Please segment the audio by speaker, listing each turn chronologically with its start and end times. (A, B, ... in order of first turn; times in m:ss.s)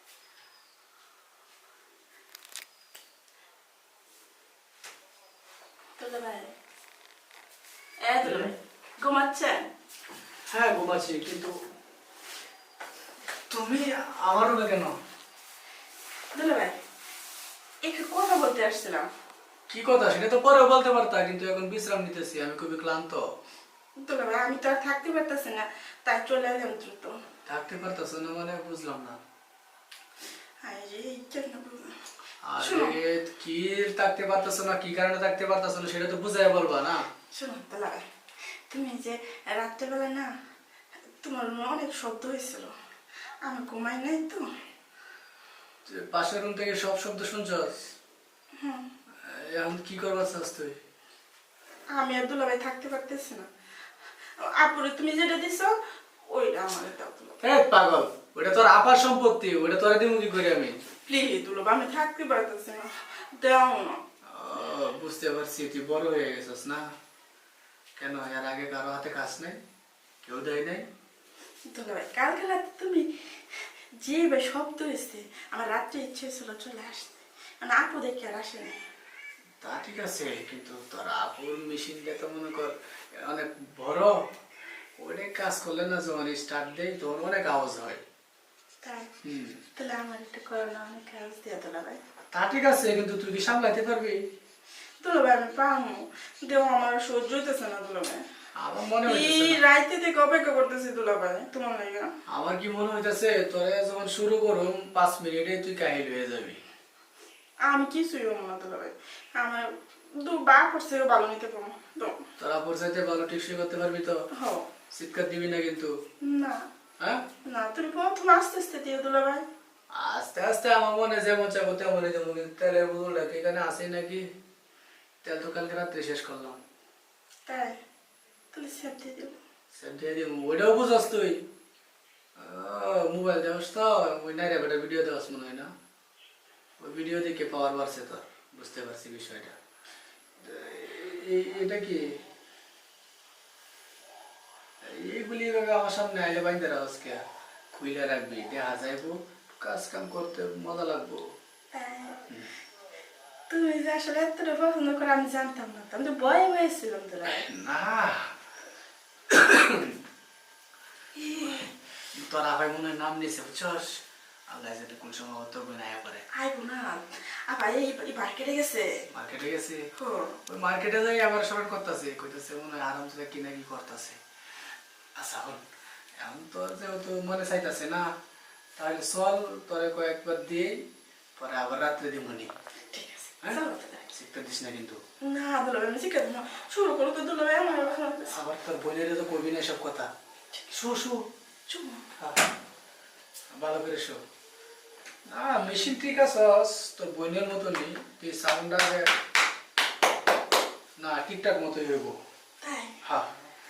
0:06.0-0:06.5 A
0:08.0-0:09.7 A
0:08.2-0:08.5 B
0:10.5-0:11.6 B
0:13.5-0:15.0 B
0:16.3-0:16.8 A
0:17.8-0:19.1 A
0:19.7-0:23.2 B
0:24.0-0:27.2 A
0:27.5-0:29.2 B
0:30.6-0:32.0 A
0:32.4-0:37.0 B
0:32.6-0:32.9 A
0:37.4-0:38.0 A
0:38.7-0:40.3 A
0:41.2-0:42.7 A
0:43.4-0:44.5 A
0:45.8-0:47.8 B
0:48.6-0:48.9 A
0:49.2-0:50.8 B
0:51.9-0:53.5 A
0:54.4-0:55.7 A
0:56.3-0:57.4 A
0:57.4-1:00.8 B
1:01.0-1:04.0 A
1:04.3-1:06.8 B
1:08.0-1:09.6 B
1:10.2-1:10.8 B
1:11.7-1:18.8 A
1:19.6-1:24.1 B
1:25.0-1:28.0 B
1:28.8-1:29.1 A
1:29.2-1:29.6 B
1:29.8-1:32.0 A
1:32.3-1:34.2 B
1:35.0-1:38.2 A
1:38.6-1:39.6 B
1:39.0-1:42.1 A
1:42.3-1:46.6 B
1:47.7-1:49.7 A
1:50.2-1:52.2 A
1:52.4-1:54.2 B
1:54.3-1:54.7 A
1:54.9-1:55.9 B
1:56.2-1:56.6 A
1:57.4-1:59.4 A
1:59.9-2:04.2 B
2:05.2-2:06.6 B
2:07.5-2:07.8 A
2:08.5-2:09.4 A
2:09.7-2:11.4 B
2:12.4-2:15.7 B
2:16.8-2:19.5 B
2:20.4-2:22.0 B
2:24.8-2:27.2 B
2:27.7-2:31.3 B
2:31.7-2:32.2 A
2:33.5-2:37.4 A
2:37.2-2:38.3 B
2:39.3-2:39.9 B
2:41.1-2:41.7 A
2:42.1-2:46.2 B
2:46.3-2:49.0 A
2:49.1-2:49.8 B
2:50.0-2:50.4 A
2:50.5-2:54.2 B
2:55.2-2:55.6 B
2:56.2-2:58.0 B
2:58.8-3:00.8 B
3:01.4-3:02.5 B
3:02.9-3:04.1 A
3:03.4-3:05.0 B
3:05.2-3:08.4 A
3:08.3-3:10.1 B
3:10.7-3:11.2 B
3:11.7-3:12.1 A
3:12.2-3:12.4 B
3:13.5-3:14.2 B
3:15.3-3:19.1 B
3:21.0-3:22.2 B
3:22.6-3:23.0 A
3:23.0-3:23.3 B